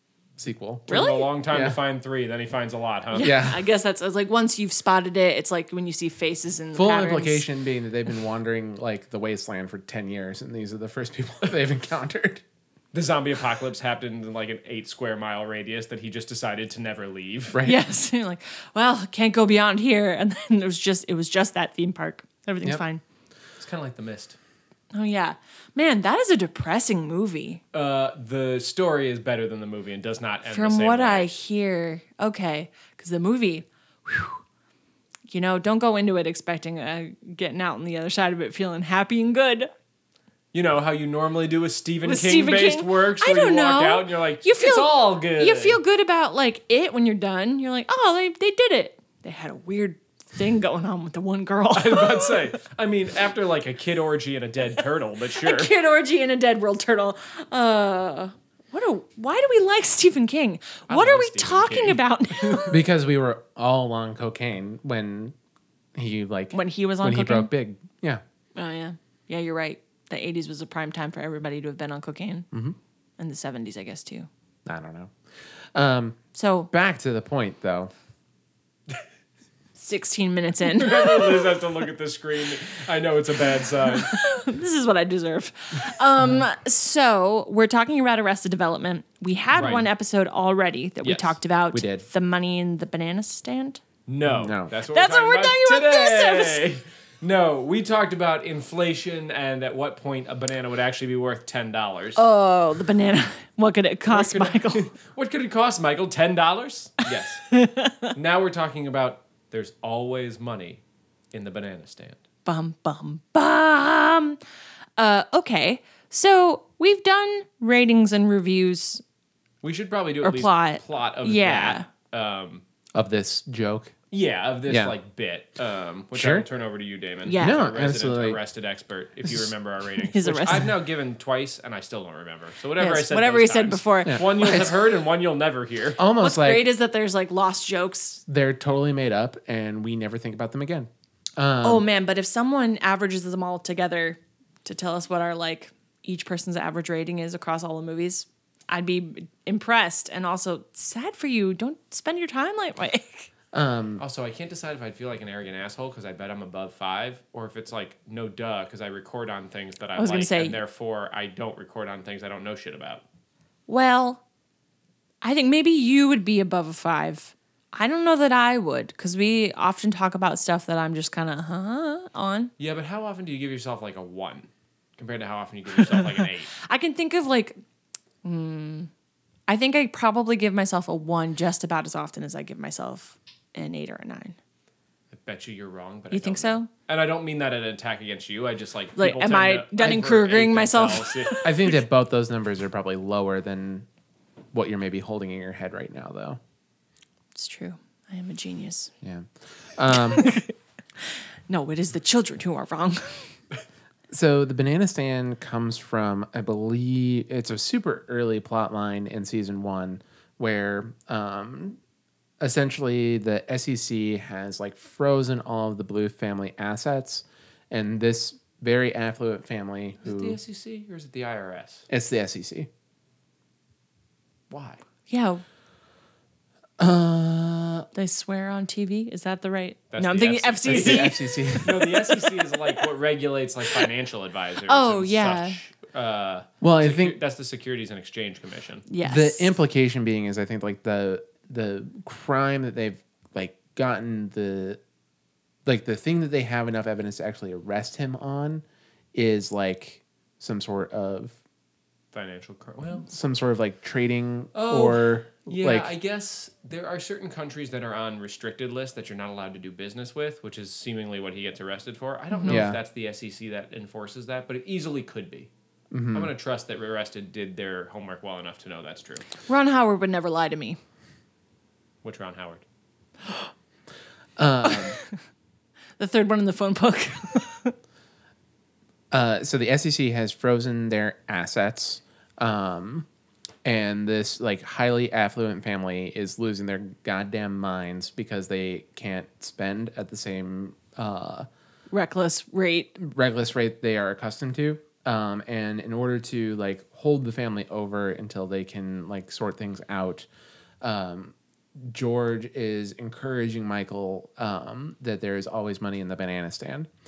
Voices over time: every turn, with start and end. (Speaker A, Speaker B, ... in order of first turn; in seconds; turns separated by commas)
Speaker A: 0.4-0.9, Speaker B: 0.9-3.4, Speaker C: 0.9-1.3, Speaker A: 1.5-1.8, Speaker C: 3.1-7.5, Speaker A: 3.2-3.6, Speaker A: 6.7-12.4, Speaker B: 12.9-17.6, Speaker A: 17.5-17.8, Speaker C: 17.6-23.0, Speaker B: 23.6-24.4, Speaker C: 24.9-27.6, Speaker B: 27.7-31.3, Speaker C: 30.5-34.4, Speaker C: 35.3-39.7, Speaker B: 40.5-45.8, Speaker C: 42.0-52.5, Speaker B: 51.7-55.7, Speaker C: 55.3-62.8, Speaker B: 60.9-62.6, Speaker A: 62.7-65.3, Speaker A: 66.0-68.2, Speaker C: 66.5-67.5, Speaker C: 68.5-72.5, Speaker A: 72.5-72.8, Speaker C: 73.2-74.3, Speaker A: 74.7-75.1, Speaker A: 75.7-76.2, Speaker C: 76.3-76.7, Speaker A: 76.7-77.9, Speaker C: 79.8-81.6, Speaker B: 80.6-84.2, Speaker C: 84.0-93.8, Speaker B: 89.5-89.9, Speaker B: 91.0-91.4, Speaker A: 91.7-92.0, Speaker B: 94.1-102.2, Speaker A: 94.2-94.7, Speaker C: 94.9-96.6, Speaker C: 102.2-104.9, Speaker B: 104.1-107.5, Speaker C: 107.5-108.1, Speaker B: 108.1-110.8, Speaker B: 111.3-112.2, Speaker C: 112.5-114.4, Speaker C: 115.0-119.0, Speaker B: 119.6-122.6, Speaker C: 120.2-121.9, Speaker A: 122.9-124.0, Speaker B: 124.1-136.0, Speaker A: 124.7-124.9, Speaker A: 126.1-126.5, Speaker C: 127.2-127.6, Speaker A: 127.3-128.4, Speaker A: 129.2-129.5, Speaker C: 130.1-130.7, Speaker C: 132.8-134.7, Speaker A: 134.0-134.8, Speaker A: 135.9-136.7, Speaker C: 136.2-138.2, Speaker A: 138.3-141.8, Speaker C: 141.6-153.3, Speaker A: 153.5-154.0, Speaker B: 154.0-163.0, Speaker C: 160.0-160.6, Speaker C: 163.7-164.2, Speaker C: 165.2-172.5, Speaker B: 172.6-176.5, Speaker C: 176.6-177.6, Speaker C: 178.2-178.9, Speaker C: 179.5-184.4, Speaker B: 185.1-191.4, Speaker C: 186.1-186.7, Speaker C: 188.9-191.8, Speaker A: 191.4-193.9, Speaker A: 194.5-196.4, Speaker C: 197.3-198.9, Speaker A: 199.0-200.3, Speaker C: 200.1-200.5, Speaker C: 201.5-203.3, Speaker A: 204.1-211.8, Speaker A: 212.4-220.4, Speaker B: 220.0-221.9, Speaker A: 221.9-222.7, Speaker B: 224.5-224.8, Speaker C: 225.1-225.4, Speaker A: 226.8-227.8, Speaker C: 227.9-231.5, Speaker B: 229.9-238.8, Speaker A: 230.7-231.9, Speaker C: 234.7-235.6, Speaker A: 236.6-237.2, Speaker C: 238.9-239.5, Speaker A: 239.0-244.8, Speaker A: 245.7-248.6, Speaker A: 249.1-251.4, Speaker B: 252.1-253.1, Speaker A: 253.1-255.9, Speaker B: 254.5-265.5, Speaker C: 262.3-262.6, Speaker A: 262.5-262.8, Speaker A: 265.9-266.3, Speaker B: 266.1-269.3, Speaker C: 269.5-270.8, Speaker B: 272.0-272.6, Speaker A: 274.4-275.0, Speaker C: 274.6-275.0, Speaker C: 276.0-277.7, Speaker A: 279.1-283.1, Speaker A: 283.6-291.5, Speaker C: 291.9-292.9, Speaker A: 292.9-300.3, Speaker A: 300.8-306.9